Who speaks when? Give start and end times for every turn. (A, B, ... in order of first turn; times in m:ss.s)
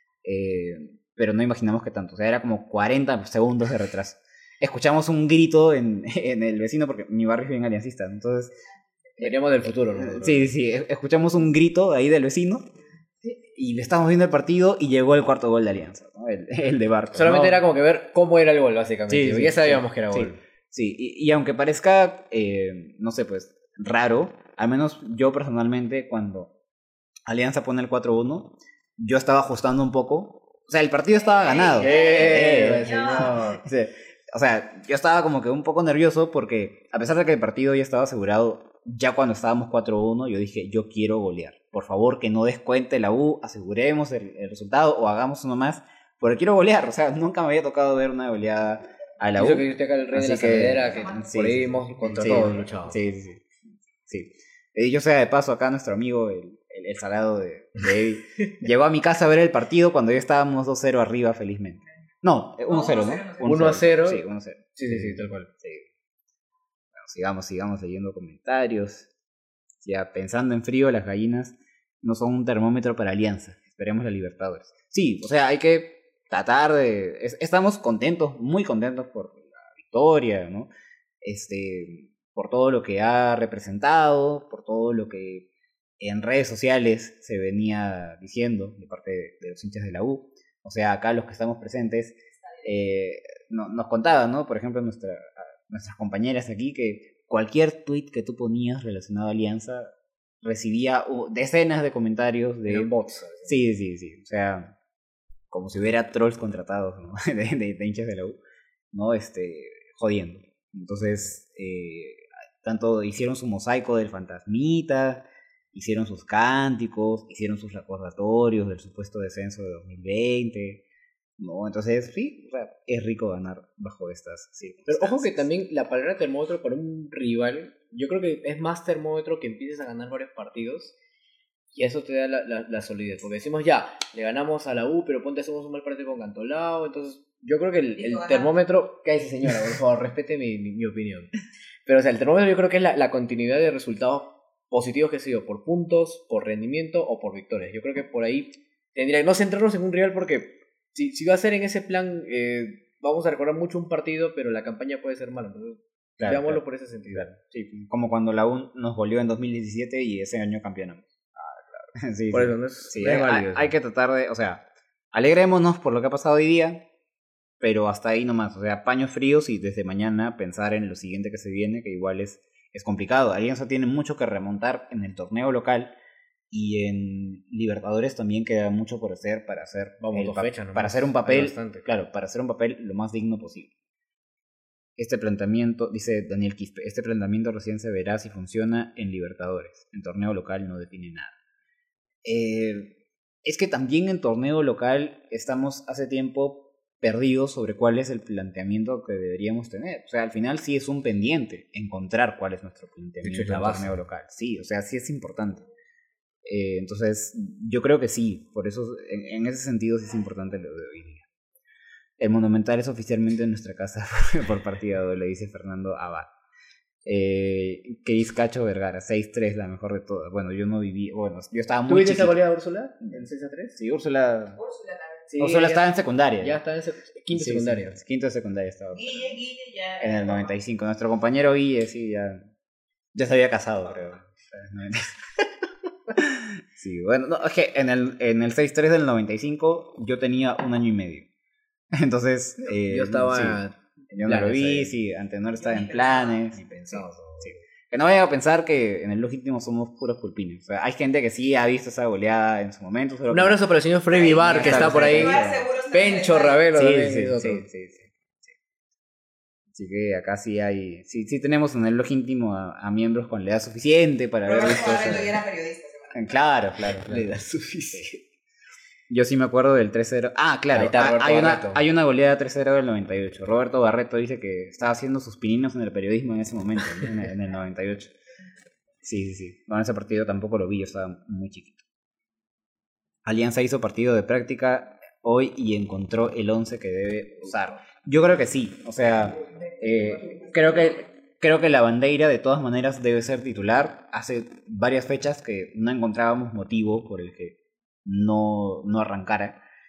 0:00.2-0:08.5 A
0:09.2-0:10.5 B
0:09.9-0:12.7 A
0:13.2-0:17.6 A
0:17.1-0:20.4 B
0:19.1-0:26.5 A
0:27.3-0:53.5 A
0:31.5-0:33.6 B
0:31.7-0:33.3 C
0:49.4-0:53.0 B
0:54.0-1:05.9 A
1:02.7-1:03.3 C
1:03.4-1:04.2 B
1:04.8-1:05.5 B
1:06.9-1:09.1 A
1:09.8-1:20.7 A
1:21.2-1:25.5 A
1:26.0-1:42.9 A
1:42.6-1:43.6 B
1:43.4-1:44.7 A
1:45.5-1:48.4 A
1:48.9-2:00.8 A
2:01.4-2:05.5 A
2:04.9-2:10.9 B
2:11.7-2:21.3 B
2:21.8-2:37.3 B
2:36.2-2:46.8 A
2:42.3-2:43.7 B
2:47.6-2:55.9 A
2:56.5-3:03.7 A
3:00.0-3:01.9 B
3:05.0-3:11.3 A
3:12.2-3:25.6 A
3:23.2-3:24.0 B
3:26.4-3:31.2 A
3:32.2-3:36.3 A
3:37.0-3:42.4 A
3:41.9-3:43.8 B
3:43.0-3:44.6 A
3:44.6-3:45.2 C
3:45.3-3:48.0 B
3:45.4-3:46.6 A
3:47.3-3:49.4 A
3:49.0-3:50.1 C
3:50.0-3:52.4 A
3:53.1-3:55.3 A
3:56.1-4:01.3 A
4:01.9-4:13.6 A
4:02.7-4:04.9 B
4:05.9-4:06.2 C
4:06.5-4:07.6 B
4:13.3-4:17.6 B
4:14.3-4:15.7 A
4:14.3-4:16.6 C
4:16.7-4:18.5 A
4:19.7-4:25.4 A
4:24.5-4:26.2 C
4:26.1-4:27.4 A
4:26.8-4:28.2 B
4:29.1-4:38.1 A
4:30.7-4:31.8 B
4:39.0-4:41.8 A
4:43.2-4:59.6 A